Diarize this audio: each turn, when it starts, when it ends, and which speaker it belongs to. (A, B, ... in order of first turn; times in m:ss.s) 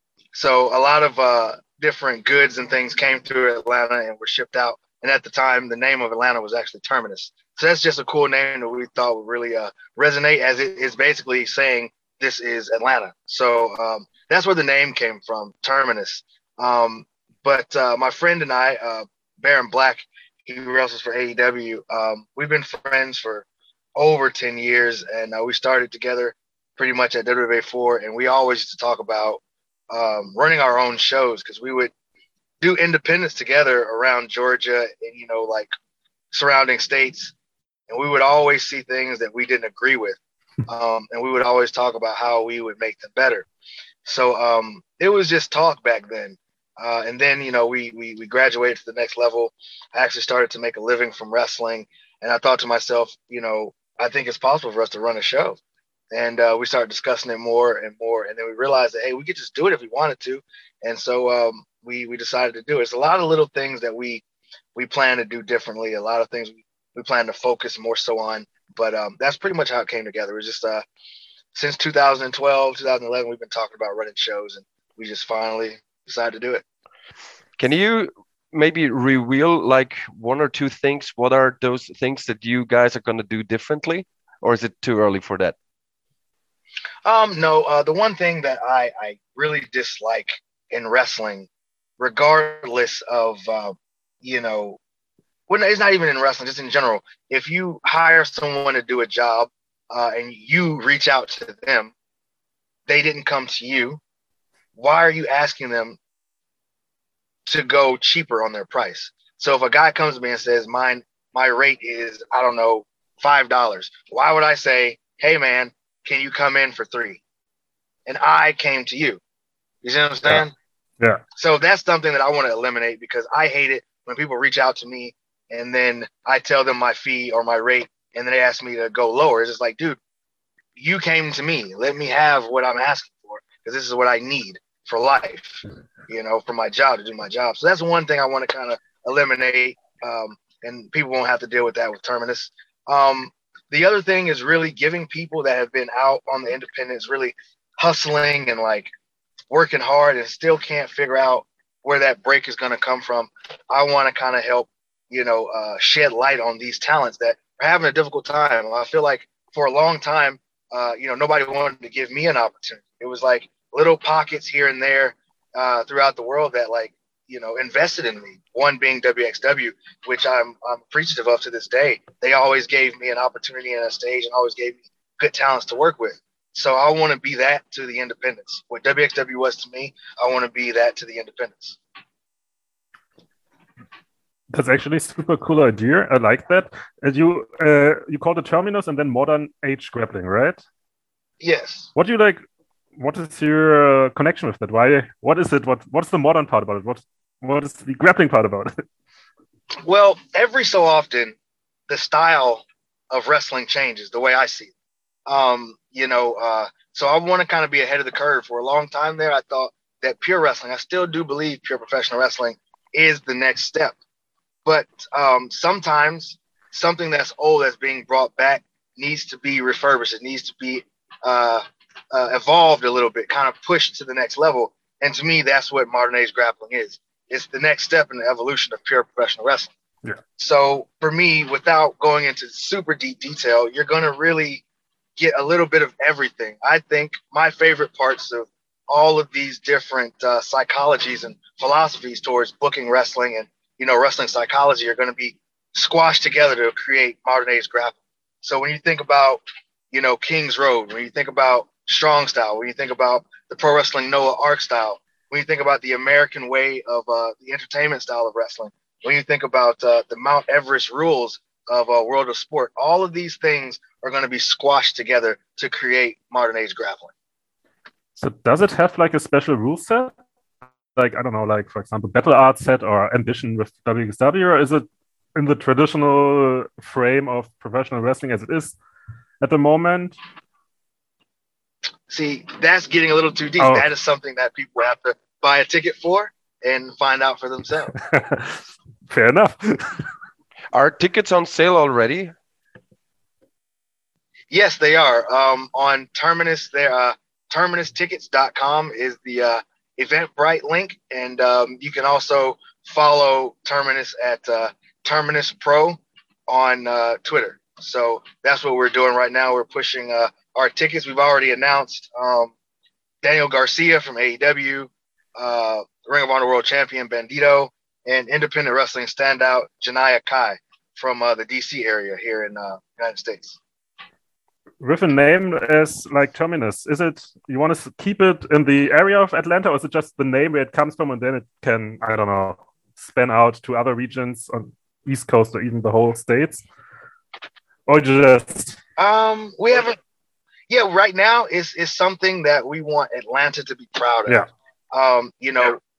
0:00.3-0:29.4 A
0:29.9-0:31.9 A
0:32.6-0:35.7 A
0:36.3-0:37.3 A
0:37.9-0:43.5 A
0:44.0-0:55.6 A
0:56.1-1:04.2 A
1:04.7-1:10.8 A
1:11.5-1:16.6 A
1:17.6-1:25.6 B
1:27.0-1:31.5 A
1:32.0-1:34.8 A
1:35.5-1:41.9 A
1:42.9-1:44.0 A
1:44.8-1:46.0 A
1:47.4-1:57.2 A
1:58.0-1:59.2 A
1:59.8-2:00.5 A
2:01.4-2:10.0 A
2:10.8-2:28.9 A
2:29.5-3:01.8 A
3:04.5-3:10.6 C
3:11.4-3:11.9 A
3:11.9-3:12.4 C
3:13.0-3:18.8 C
3:19.8-3:21.3 A
3:21.9-3:24.7 A
3:25.3-3:34.0 A
3:34.6-3:49.7 A
3:50.4-3:54.6 A
3:55.2-4:09.4 A
4:09.9-4:27.1 A
4:28.2-4:30.1 C
4:31.0-4:38.8 C
4:39.4-4:40.2 C
4:42.1-4:47.9 A
4:43.6-4:43.9 C
4:48.0-4:50.1 C
4:50.7-4:52.3 B
4:54.5-5:12.5 A
5:13.2-5:23.6 A
5:24.8-5:36.6 C
5:37.9-5:38.8 C
5:39.0-5:40.0 A
5:40.7-5:45.8 A